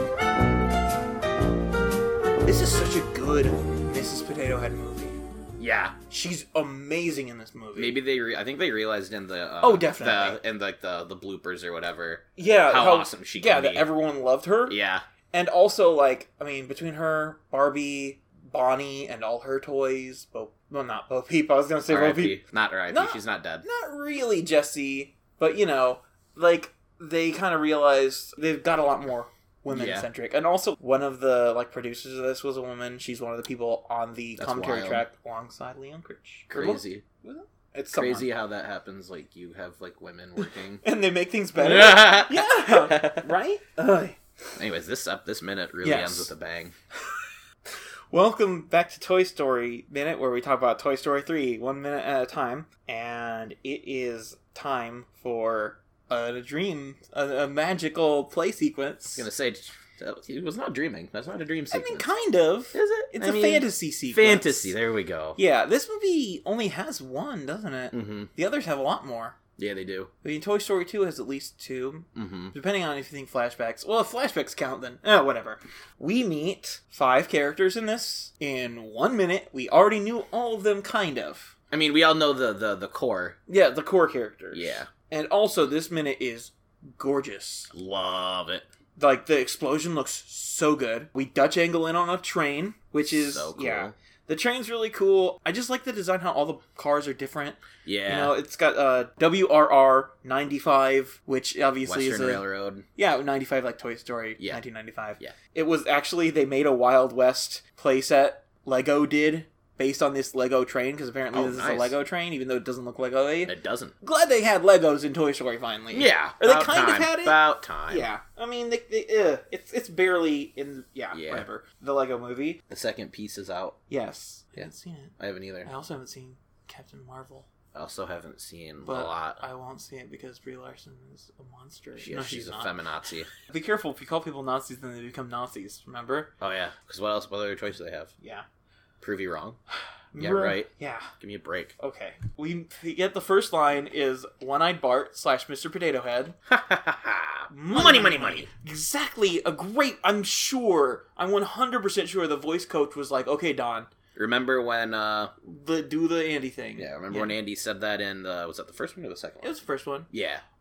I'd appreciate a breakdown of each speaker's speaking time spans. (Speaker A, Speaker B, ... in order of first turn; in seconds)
Speaker A: 2.5-5.2, 6.1-8.0, 9.6-10.4, 12.4-14.8, 15.3-38.3, 40.8-44.2, 45.8-46.3, 48.1-59.3, 61.7-64.8, 65.4-69.4, 70.2-81.5, 83.5-87.7, 89.0-102.4, 103.0-122.6, 123.9-127.5, 128.8-132.7, 133.3-136.3, 138.2-138.4, 140.1-141.1, 141.8-146.4, 147.5-153.9, 155.4-157.3, 159.4-160.1
Speaker B: 5.6-6.0, 7.8-13.9, 14.7-15.1, 21.9-23.6, 29.7-30.1, 34.4-35.0, 36.5-37.0, 37.9-40.8, 41.6-43.3, 44.6-46.7, 59.2-62.1, 62.7-65.4, 67.9-68.3, 69.6-70.1, 72.1-72.5, 81.7-83.4, 84.5-84.9, 87.7-88.7, 93.1-93.9, 97.8-98.3, 101.8-102.8, 111.3-112.0, 113.5-114.0, 115.9-118.1, 121.1-121.5, 122.7-123.8, 124.6-125.7, 127.7-129.4, 132.0-133.3, 136.4-138.1, 139.0-139.6, 140.2-141.7, 146.5-148.5, 154.2-155.3, 156.8-159.6, 160.1-160.4